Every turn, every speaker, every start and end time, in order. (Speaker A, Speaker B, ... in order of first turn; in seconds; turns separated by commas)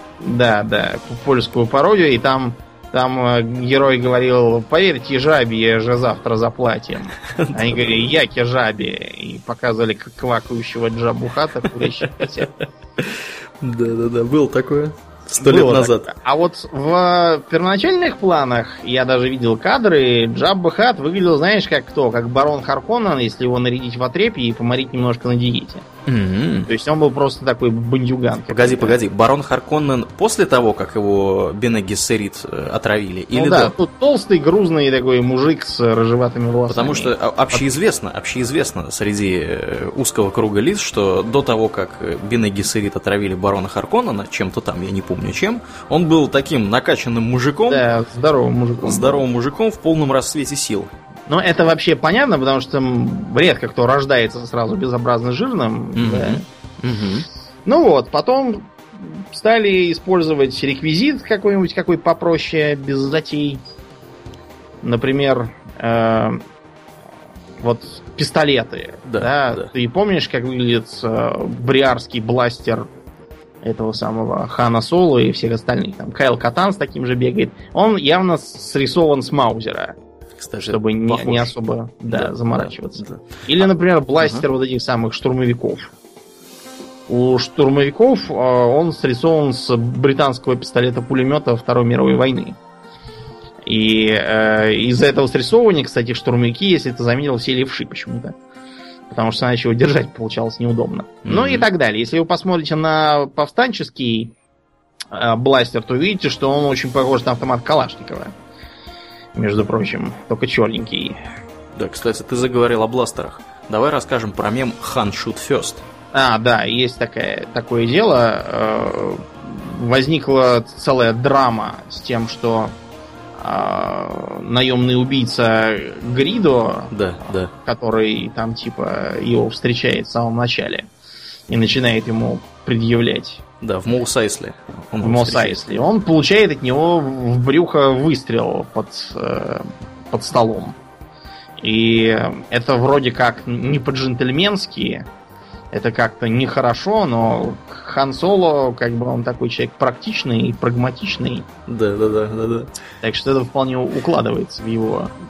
Speaker A: 0.2-12.5, Speaker B: 7.2-8.1, Speaker B: 13.0-16.1, Speaker A: 15.4-25.9, Speaker B: 26.1-26.7, Speaker A: 26.7-29.0, Speaker B: 28.5-33.7, Speaker A: 33.3-37.6, Speaker B: 36.7-47.8, Speaker A: 47.7-49.2, Speaker B: 48.8-50.9, Speaker A: 51.3-56.4, Speaker B: 56.0-57.3, Speaker A: 57.6-63.6, Speaker A: 64.8-66.4, Speaker A: 67.6-72.8, Speaker B: 69.0-69.7, Speaker A: 73.6-80.0, Speaker B: 80.4-81.5, Speaker A: 80.7-85.9, Speaker B: 82.1-83.4, Speaker B: 84.2-84.4, Speaker A: 87.1-92.6, Speaker A: 93.6-98.3, Speaker A: 99.1-104.3, Speaker B: 101.2-101.7, Speaker A: 105.1-108.3, Speaker A: 109.3-111.2, Speaker B: 111.8-115.8, Speaker A: 116.1-122.7, Speaker A: 123.4-126.9, Speaker B: 126.9-127.5, Speaker A: 127.6-130.9, Speaker A: 131.5-133.4, Speaker B: 133.6-135.6, Speaker A: 135.0-140.8, Speaker A: 141.6-145.1, Speaker A: 145.7-151.5, Speaker B: 151.7-152.7, Speaker A: 153.0-155.1